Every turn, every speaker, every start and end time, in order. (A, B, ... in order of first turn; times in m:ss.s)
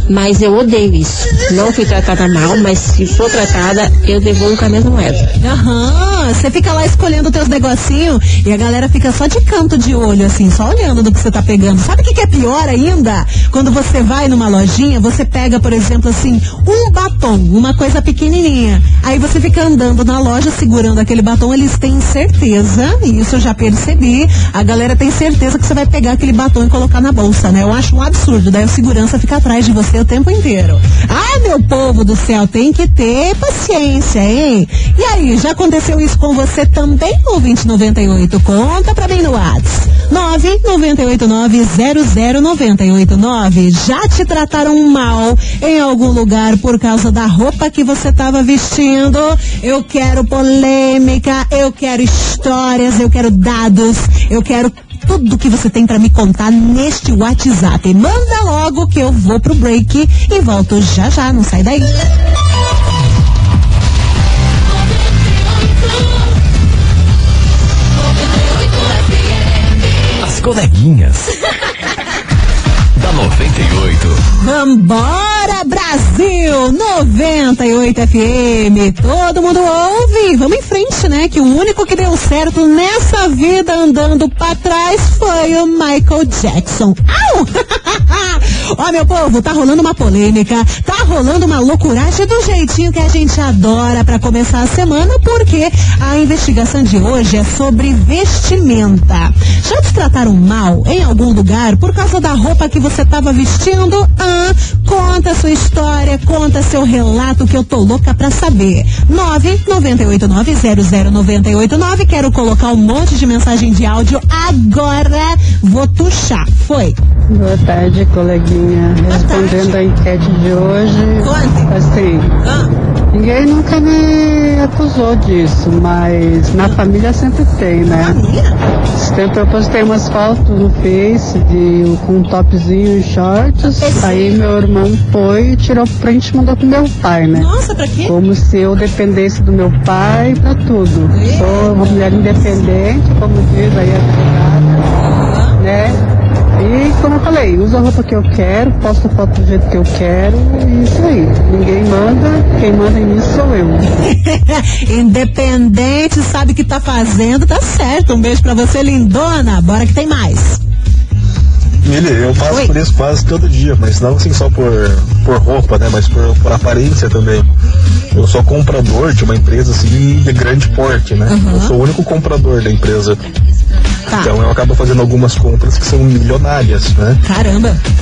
0:00.1-0:05.3 A
0:05.4-1:01.9 B
1:10.2-1:11.3 C
1:13.0-1:14.2 C
1:14.4-1:57.0 B
1:57.3-2:02.4 D
1:59.1-1:59.8 B
2:01.2-2:01.8 B
2:02.4-2:02.7 B
2:03.1-2:08.2 D
2:07.9-2:08.6 B
2:09.0-2:17.5 D
2:13.6-2:14.4 B
2:17.3-2:18.2 B
2:18.1-2:25.0 D
2:21.1-2:22.2 B
2:25.0-2:25.6 B
2:25.6-2:26.0 D
2:26.6-2:33.9 D
2:33.9-2:40.6 B
2:41.8-2:47.5 E
2:48.1-2:53.2 E
2:51.3-2:51.8 B
2:54.2-2:57.2 E
2:57.2-2:57.8 B